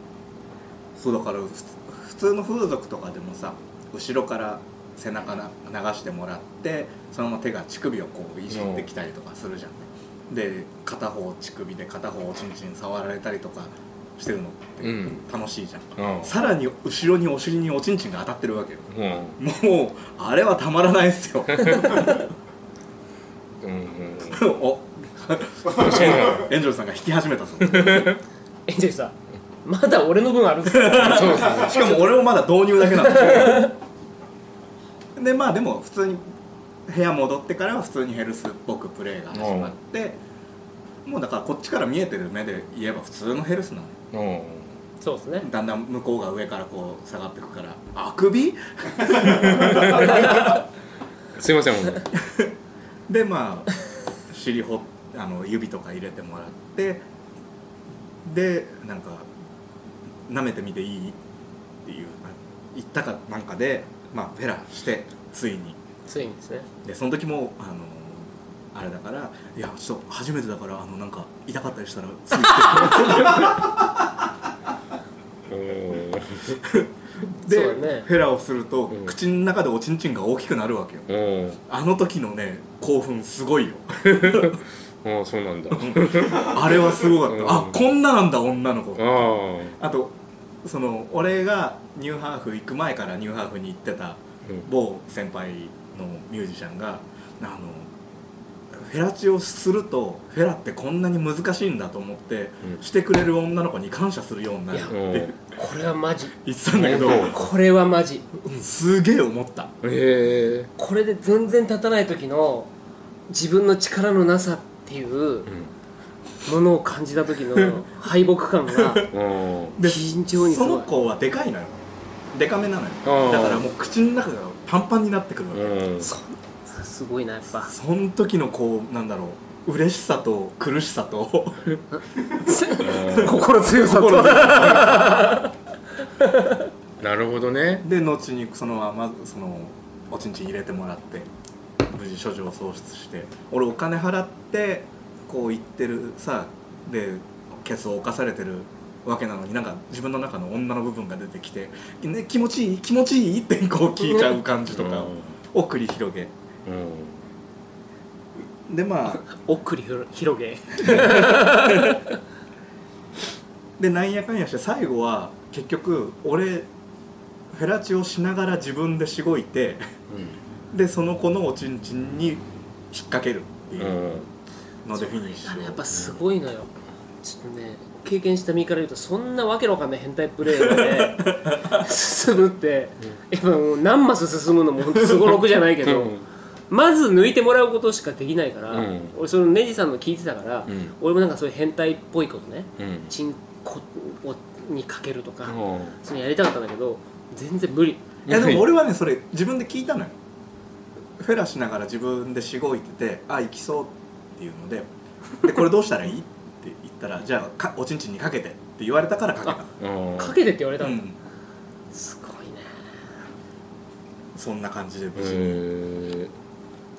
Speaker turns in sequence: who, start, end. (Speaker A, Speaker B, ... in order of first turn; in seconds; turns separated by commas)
Speaker A: 0.9-22.3, Speaker B: 8.5-8.9, Speaker B: 14.8-15.2, Speaker B: 16.0-16.4, Speaker B: 18.9-19.4, Speaker B: 21.6-22.0, Speaker B: 23.6-24.5, Speaker A: 24.3-28.2, Speaker B: 25.7-26.5, Speaker B: 27.6-28.2, Speaker C: 28.7-32.0, Speaker A: 30.7-33.7, Speaker B: 31.0-31.9, Speaker C: 33.0-33.7, Speaker A: 35.1-36.2, Speaker A: 36.9-40.2, Speaker B: 39.3-39.7, Speaker A: 41.0-44.0, Speaker B: 44.1-44.7, Speaker C: 45.0-45.5, Speaker A: 45.4-50.6, Speaker B: 49.2-50.6, Speaker B: 51.4-52.1, Speaker A: 52.1-52.5, Speaker A: 53.1-57.0, Speaker A: 58.2-59.3, Speaker A: 60.3-61.2, Speaker A: 61.8-65.8, Speaker C: 66.1-66.7, Speaker A: 66.8-73.9, Speaker B: 75.5-76.6, Speaker A: 76.6-81.1, Speaker C: 77.5-78.1, Speaker B: 81.1-81.6, Speaker A: 81.7-84.6, Speaker B: 84.0-87.8, Speaker A: 85.7-89.2, Speaker B: 89.0-89.8, Speaker A: 89.8-97.9, Speaker A: 98.7-105.3, Speaker C: 104.7-106.3, Speaker B: 104.9-105.3, Speaker A: 106.4-107.4, Speaker B: 106.7-107.4, Speaker C: 107.0-108.4, Speaker A: 108.5-109.7, Speaker B: 109.8-110.7, Speaker C: 110.8-112.7, Speaker C: 113.3-115.5, Speaker B: 115.5-115.7, Speaker C: 116.5-119.1, Speaker B: 119.1-119.8, Speaker A: 119.8-125.8, Speaker C: 119.8-120.9, Speaker B: 123.0-123.6, Speaker B: 125.5-126.1, Speaker C: 126.0-127.7, Speaker A: 127.5-131.7, Speaker C: 131.9-135.5, Speaker A: 132.3-135.2, Speaker B: 132.8-133.5, Speaker B: 134.3-135.1, Speaker C: 136.2-136.6, Speaker B: 137.0-137.9, Speaker A: 137.8-141.3, Speaker A: 141.9-156.3, Speaker B: 154.7-155.3, Speaker B: 156.7-157.2, Speaker A: 158.7-159.2, Speaker C: 159.2-162.1, Speaker A: 160.8-162.0, Speaker A: 163.8-166.7, Speaker A: 167.5-169.8, Speaker B: 170.1-170.4, Speaker A: 170.7-174.0, Speaker B: 173.8-174.3, Speaker A: 174.8-175.8, Speaker C: 175.3-176.7, Speaker B: 175.9-176.2, Speaker C: 177.2-186.1, Speaker A: 180.6-181.8, Speaker B: 185.2-186.2, Speaker C: 186.7-198.0, Speaker B: 188.7-189.1, Speaker B: 190.7-190.9, Speaker B: 192.8-193.1, Speaker B: 195.5-196.0, Speaker B: 198.3-198.7, Speaker A: 198.3-200.2, Speaker A: 201.2-209.8, Speaker B: 209.8-210.4, Speaker C: 210.2-211.0, Speaker A: 210.8-211.2, Speaker C: 211.9-212.7, Speaker A: 214.3-215.6, Speaker B: 215.2-216.3